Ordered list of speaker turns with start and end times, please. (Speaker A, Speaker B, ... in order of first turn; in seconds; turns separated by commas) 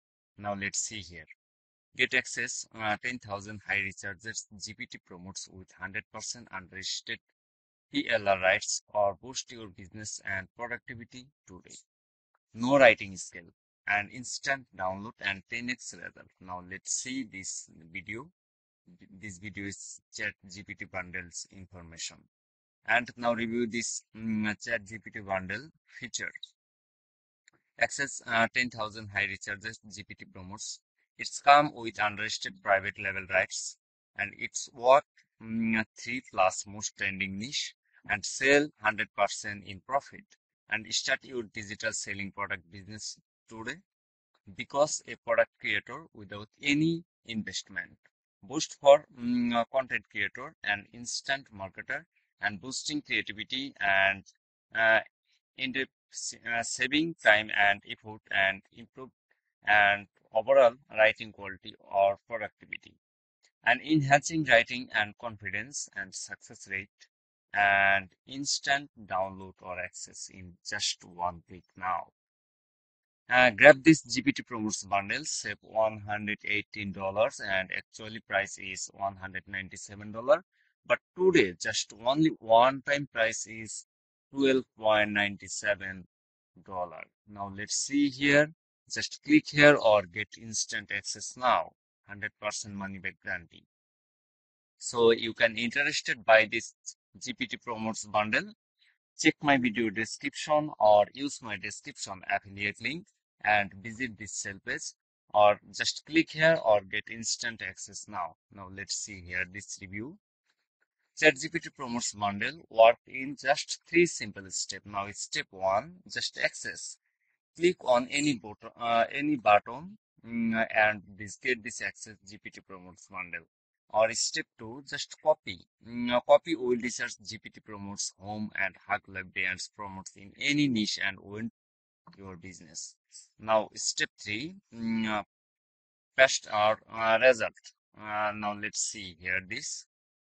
Speaker A: 0.4-1.3, Speaker A: 1.9-7.2, Speaker A: 7.9-11.8, Speaker A: 12.5-18.3, Speaker A: 18.9-22.3, Speaker A: 22.9-26.4, Speaker A: 27.8-43.8, Speaker A: 44.5-55.0, Speaker A: 55.6-59.1, Speaker A: 59.7-63.0, Speaker A: 63.6-72.1, Speaker A: 73.3-93.7, Speaker A: 94.8-98.5, Speaker A: 99.2-110.2, Speaker A: 111.2-117.0, Speaker A: 117.6-131.5, Speaker A: 132.1-135.2, Speaker A: 136.2-139.9